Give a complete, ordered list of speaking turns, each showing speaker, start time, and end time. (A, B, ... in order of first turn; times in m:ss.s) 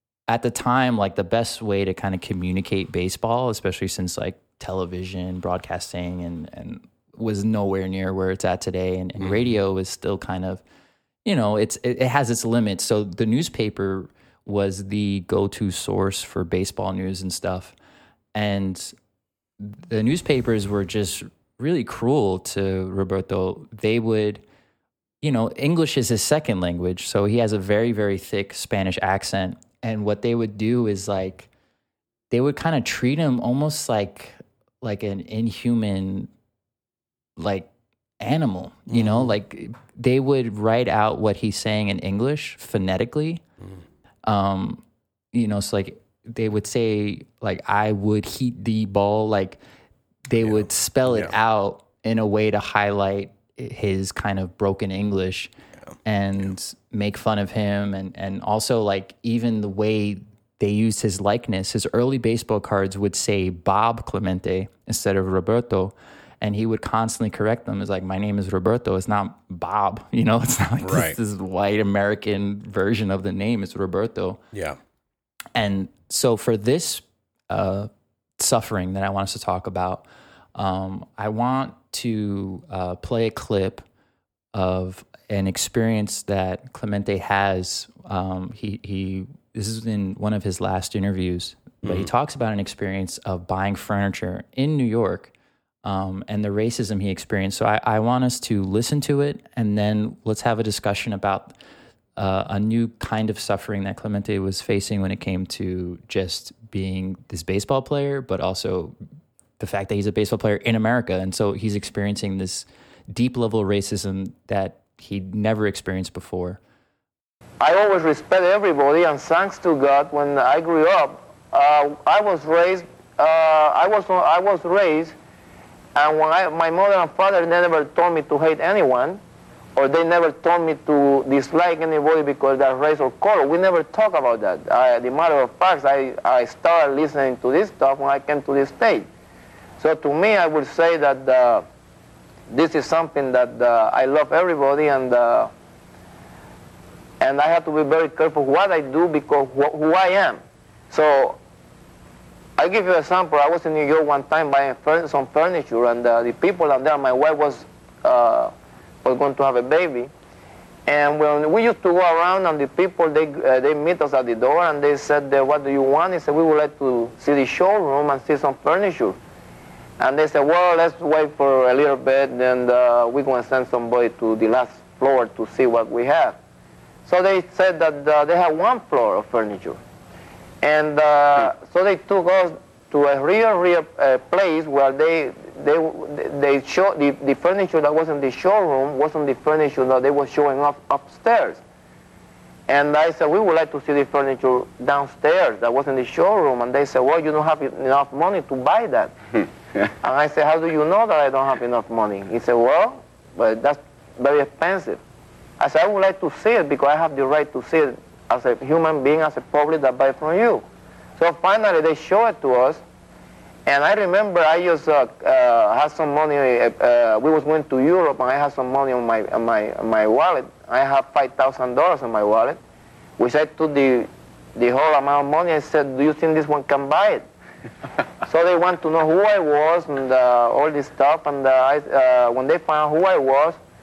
0:00.3-0:10.6 A
0:09.2-0:09.5 B
0:11.2-0:17.7 A
0:18.3-0:18.9 A
0:19.6-0:24.4 A
0:25.2-0:31.5 A
0:32.3-0:36.3 A
0:37.4-0:43.4 A
0:38.9-0:39.4 B
0:44.2-0:49.6 A
0:50.3-0:55.5 A
0:50.4-0:51.3 B
0:56.0-1:14.4 A
1:10.8-1:11.2 B
1:14.5-1:14.8 B
1:15.5-1:20.0 A
1:20.6-1:23.8 A
1:24.5-1:35.3 A
1:31.8-1:32.1 B
1:35.8-1:41.5 A
1:42.2-1:48.9 A
1:49.6-1:56.6 A
1:57.6-2:05.1 C
2:06.0-2:09.2 C
2:09.8-2:19.1 C
2:19.8-2:21.6 C
2:22.5-2:25.5 C
2:27.2-2:30.4 C
2:30.9-2:31.4 C
2:32.6-2:38.5 C
2:39.0-2:40.1 C
2:40.8-2:49.2 C
2:50.0-2:56.4 C
2:57.0-2:59.8 C
3:00.6-3:11.6 C
3:12.7-3:19.1 C
3:20.0-3:25.0 C
3:25.6-3:30.6 C
3:31.2-3:32.8 C
3:33.6-3:42.6 C
3:43.2-3:47.2 C
3:48.2-3:53.6 C